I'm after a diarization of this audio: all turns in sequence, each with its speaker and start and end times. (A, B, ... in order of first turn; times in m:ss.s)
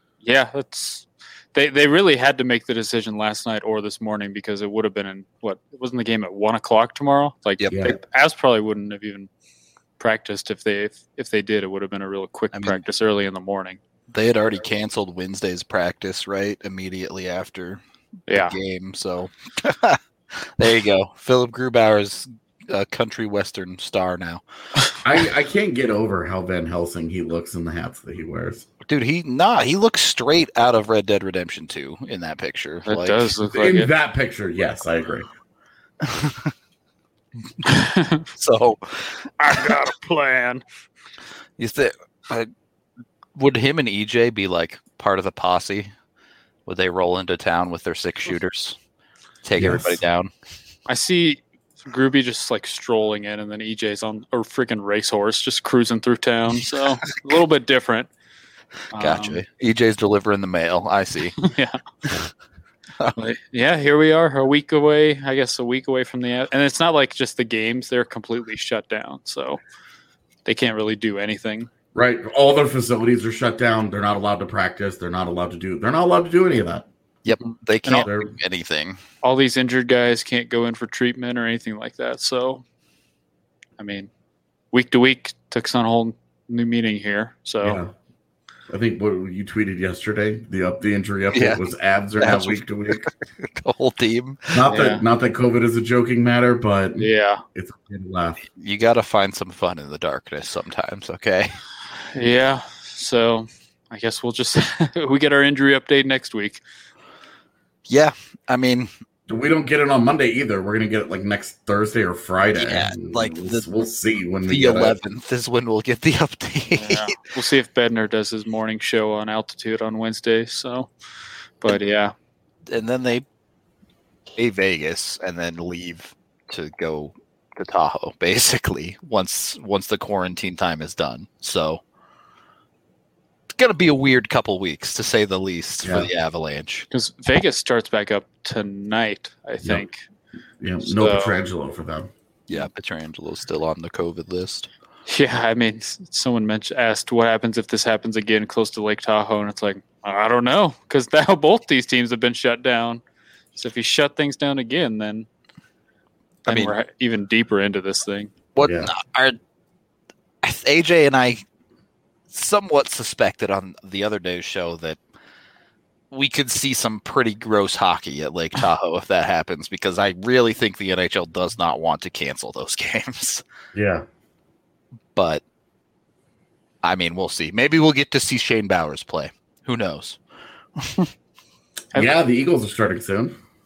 0:00.2-0:09.3 A
0:07.6-0:07.9 B
0:07.7-0:08.0 C
0:10.0-0:13.8 A
0:12.5-0:12.8 B
0:14.1-0:24.4 B
0:18.3-0:18.6 A
0:25.0-0:28.7 C
0:28.9-0:33.4 B
0:32.9-0:33.9 A
0:33.5-0:35.3 C
0:36.0-0:36.5 B
0:37.6-0:38.3 A
0:38.4-0:39.8 B
0:39.4-0:40.6 A
0:41.6-0:42.5 B
0:43.4-0:45.9 B
0:46.7-0:48.8 B
0:49.4-0:50.3 B
0:49.6-0:50.0 C
0:50.9-0:58.1 A
0:58.9-0:59.4 A
0:59.0-1:01.4 B
1:01.4-1:01.8 A
1:03.1-1:09.6 A
1:10.5-1:11.7 A
1:12.0-1:16.9 C
1:17.2-1:19.0 B
1:18.0-1:18.3 C
1:19.2-1:22.6 A
1:23.8-1:24.1 A
1:24.7-1:27.8 A
1:27.6-1:27.9 C
1:28.7-1:33.1 C
1:31.3-1:31.6 B
1:32.2-1:34.6 B
1:34.5-1:38.4 C
1:34.7-1:35.0 A
1:37.0-1:37.4 A
1:38.6-1:41.6 B
1:42.1-1:46.6 A
1:47.9-1:48.9 B
1:49.3-1:55.0 C
1:52.6-1:53.7 B
1:54.5-1:57.1 B
1:56.7-2:00.9 A
2:01.6-2:02.1 A
2:02.7-2:03.2 B
2:04.4-2:11.8 B
2:13.5-2:16.9 B
2:15.8-2:16.1 C
2:16.9-2:20.0 A
2:20.6-2:22.1 C
2:20.8-2:21.4 A
2:22.5-2:24.7 B
2:25.1-2:33.0 A
2:33.6-2:35.3 A
2:36.5-2:38.3 A
2:36.5-2:36.8 B
2:38.6-2:39.4 B
2:38.6-2:38.9 C
2:40.4-2:41.4 B
2:42.3-2:45.0 B
2:46.1-2:53.4 B
2:53.7-2:54.0 C
2:55.2-2:55.4 B
2:56.8-3:00.2 B
3:00.8-3:01.1 B
3:01.9-3:03.4 C